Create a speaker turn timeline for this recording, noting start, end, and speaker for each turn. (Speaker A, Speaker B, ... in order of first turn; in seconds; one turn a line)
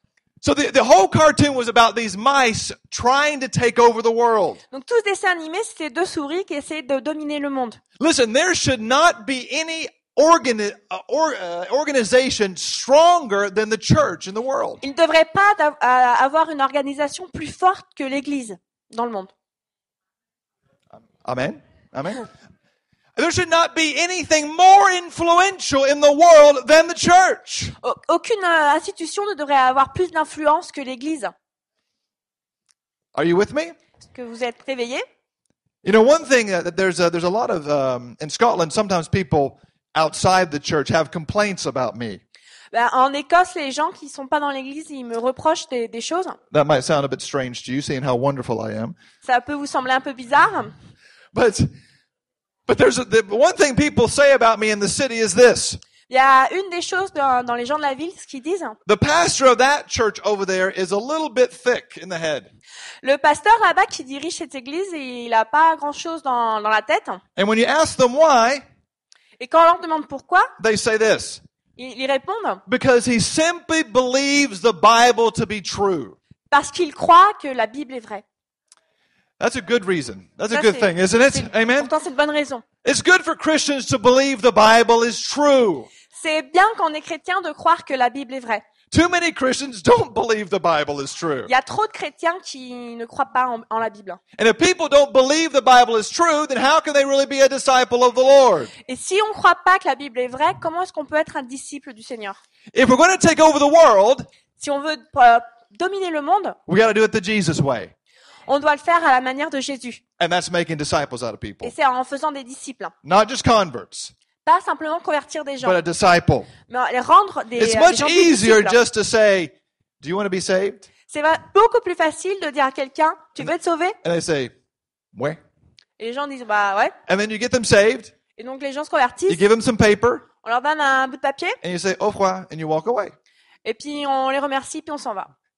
Speaker A: 0.4-4.6
Speaker B: 4.7-7.8
Speaker A: 8.0-14.8
Speaker B: 14.8-19.3
Speaker A: 21.2-22.3
Speaker A: 23.2-27.8
Speaker B: 27.8-31.3
Speaker A: 33.1-33.8
Speaker B: 34.1-35.0
Speaker A: 35.8-42.2
Speaker B: 42.7-46.4
Speaker A: 46.5-49.0
Speaker B: 49.2-50.7
Speaker A: 51.3-51.7
Speaker A: 52.7-55.8
Speaker B: 56.1-58.8
Speaker A: 58.9-62.5
Speaker B: 63.0-67.2
Speaker A: 67.4-68.6
Speaker B: 69.4-70.5
Speaker A: 70.6-71.4
Speaker B: 71.8-72.6
Speaker A: 72.7-76.2
Speaker B: 76.5-78.2
Speaker A: 79.4-81.9
Speaker B: 80.5-82.6
Speaker A: 82.8-85.9
Speaker B: 86.1-88.6
Speaker A: 88.9-91.5
Speaker B: 91.5-94.2
Speaker A: 94.4-98.7
Speaker B: 98.9-102.4
Speaker A: 102.7-104.3
Speaker B: 104.6-106.6
Speaker A: 106.7-107.9
Speaker B: 108.5-110.0
Speaker A: 110.2-111.7
Speaker B: 111.6-112.9
Speaker A: 113.0-114.1
Speaker B: 114.5-115.8
Speaker A: 115.6-116.5
Speaker B: 116.7-118.8
Speaker A: 117.6-120.9
Speaker B: 121.1-124.0
Speaker A: 124.0-124.5
Speaker A: 125.1-125.4
Speaker B: 126.0-127.0
Speaker A: 127.1-128.1
Speaker B: 128.4-129.4
Speaker A: 129.3-130.3
Speaker B: 130.4-131.6
Speaker A: 131.6-133.2
Speaker B: 133.7-135.3